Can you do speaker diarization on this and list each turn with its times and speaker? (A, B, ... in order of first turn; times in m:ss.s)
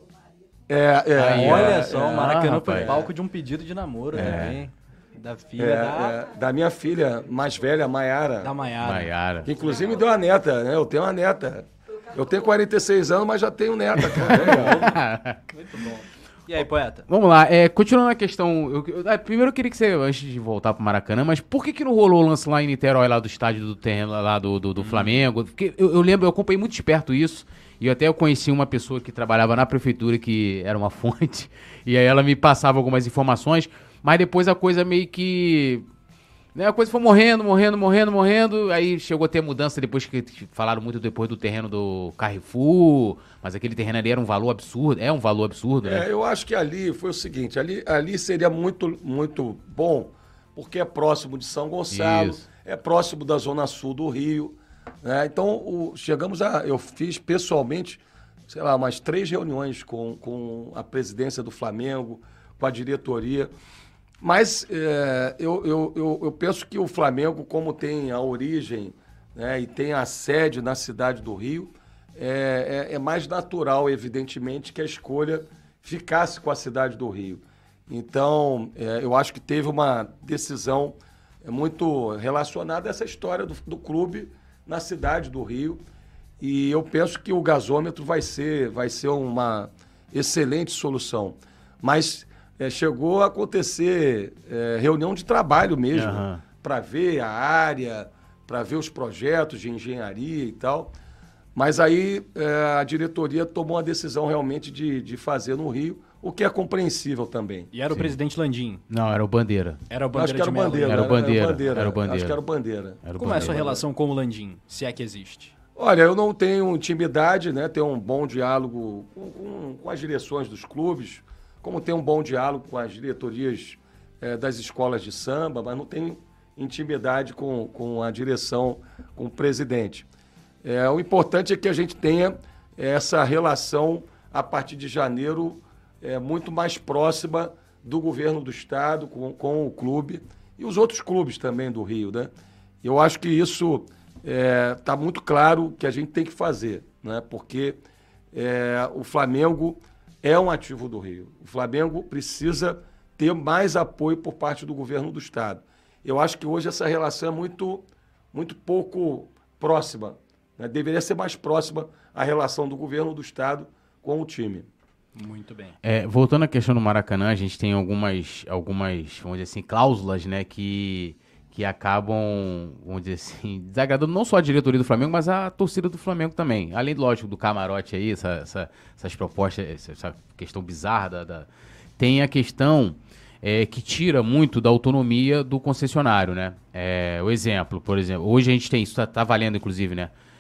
0:00.7-0:03.1 A
0:01.1-0:03.0 B
0:01.3-0:06.2 C
0:04.1-0:04.6 B
0:05.6-0:08.5 A
0:08.4-0:09.1 C
0:08.8-0:09.5 B
0:09.4-0:14.8 A
0:14.0-0:15.5 B
0:14.2-0:17.1 C
0:17.1-0:35.8 B
0:24.8-0:25.1 C
0:36.5-0:46.0 B
0:45.8-1:03.5 A
0:51.9-0:52.4 B
1:04.2-1:25.8 A
1:26.4-1:40.9 A
1:35.9-1:36.4 B
1:41.5-1:47.7 A
1:47.7-1:48.8 C
1:47.9-1:48.1 B
1:48.9-1:49.8 B
1:49.9-1:51.1 C
1:50.1-1:53.8 A
1:50.8-1:52.4 B
1:53.0-1:53.8 B
1:53.2-1:55.5 C
1:55.8-2:10.1 A
2:10.6-2:22.3 A
2:22.8-2:27.8 A
2:28.3-2:44.7 A
2:45.1-2:45.7 C
2:45.8-3:10.1 B